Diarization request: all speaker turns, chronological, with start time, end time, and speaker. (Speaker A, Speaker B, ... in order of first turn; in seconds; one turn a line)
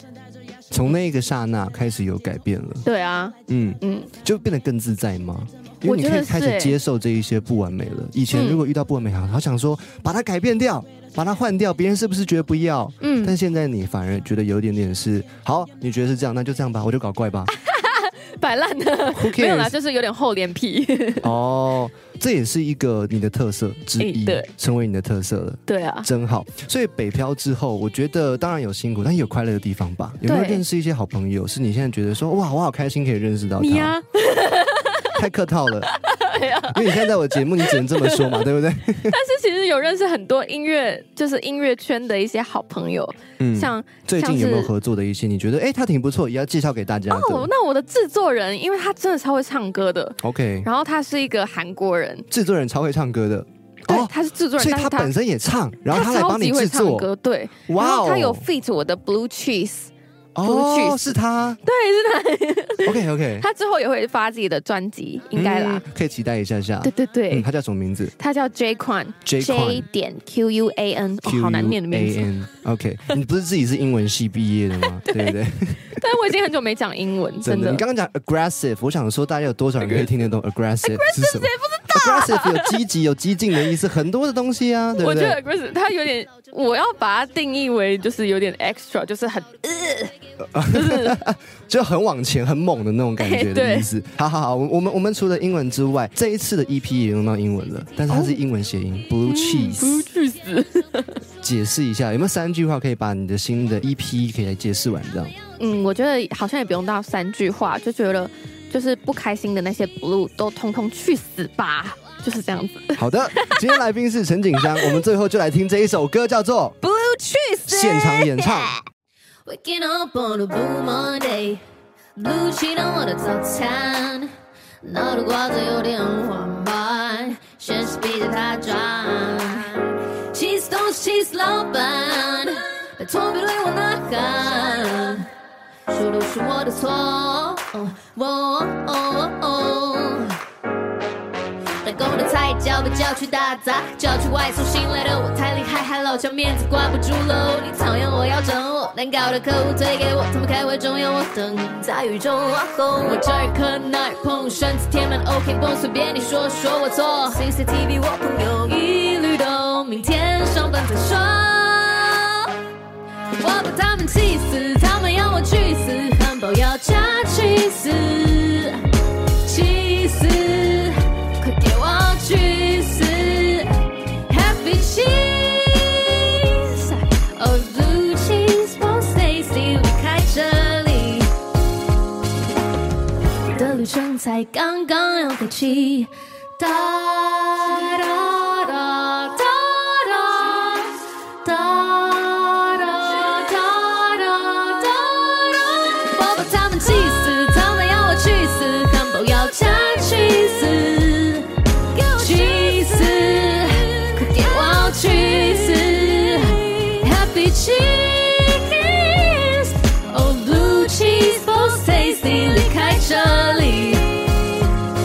Speaker A: 0.7-2.9
Speaker B: 2.8-4.1
Speaker A: 3.5-17.5
Speaker B: 5.8-6.8
Speaker B: 8.3-8.6
Speaker B: 13.0-13.3
Speaker B: 17.5-21.3
Speaker A: 19.1-19.7
Speaker A: 21.2-33.9
Speaker B: 24.0-24.5
Speaker B: 25.7-26.1
Speaker B: 30.2-30.6
Speaker B: 33.6-35.1
Speaker A: 35.1-35.9
Speaker B: 35.9-38.5
Speaker A: 36.7-39.2
Speaker B: 39.1-44.7
Speaker A: 43.4-47.5
Speaker B: 47.1-52.2
Speaker A: 50.2-50.7
Speaker A: 52.3-57.1
Speaker B: 53.9-55.1
Speaker B: 55.9-59.9
Speaker A: 57.7-58.4
Speaker A: 60.4-61.6
Speaker B: 60.4-65.8
Speaker A: 62.8-63.5
Speaker A: 65.3-68.1
Speaker B: 66.8-67.5
Speaker B: 68.2-72.3
Speaker A: 69.2-69.9
Speaker A: 71.2-76.0
Speaker B: 75.0-75.4
Speaker B: 75.9-77.8
Speaker A: 77.4-85.4
Speaker B: 80.8-82.8
Speaker B: 84.9-90.1
Speaker A: 90.5-100.0
Speaker B: 90.7-91.2
Speaker B: 93.2-93.9
Speaker B: 98.1-98.4
Speaker B: 99.2-101.2
Speaker A: 101.4-105.3
Speaker B: 105.6-113.7
Speaker A: 113.0-116.8
Speaker B: 114.6-115.0
Speaker B: 116.8-118.8
Speaker A: 117.7-118.7
Speaker C: 119.5-121.5
Speaker B: 119.5-121.6
Speaker B: 122.2-124.1
Speaker C: 122.2-124.2
Speaker C: 124.8-129.4
Speaker B: 124.9-129.8
Speaker C: 130.3-135.2
Speaker B: 132.0-132.3
Speaker B: 133.4-135.2
Speaker C: 135.9-139.5
Speaker B: 135.9-140.3
Speaker B: 141.8-159.9
Speaker C: 141.8-162.2
Speaker C: 163.4-168.8
Speaker C: 169.4-173.7
Speaker C: 174.3-175.8
Speaker B: 176.7-177.0
Speaker C: 177.4-181.2
Speaker B: 183.6-186.1
Speaker C: 183.6-185.9
Speaker C: 186.6-189.5
Speaker B: 186.8-190.9
Speaker B: 191.4-197.4
Speaker C: 196.2-201.4
Speaker B: 199.2-201.4
Speaker B: 201.9-207.3
Speaker C: 202.1-203.7
Speaker C: 204.3-209.5
Speaker B: 208.6-209.6
Speaker C: 210.1-214.0
Speaker B: 210.7-214.0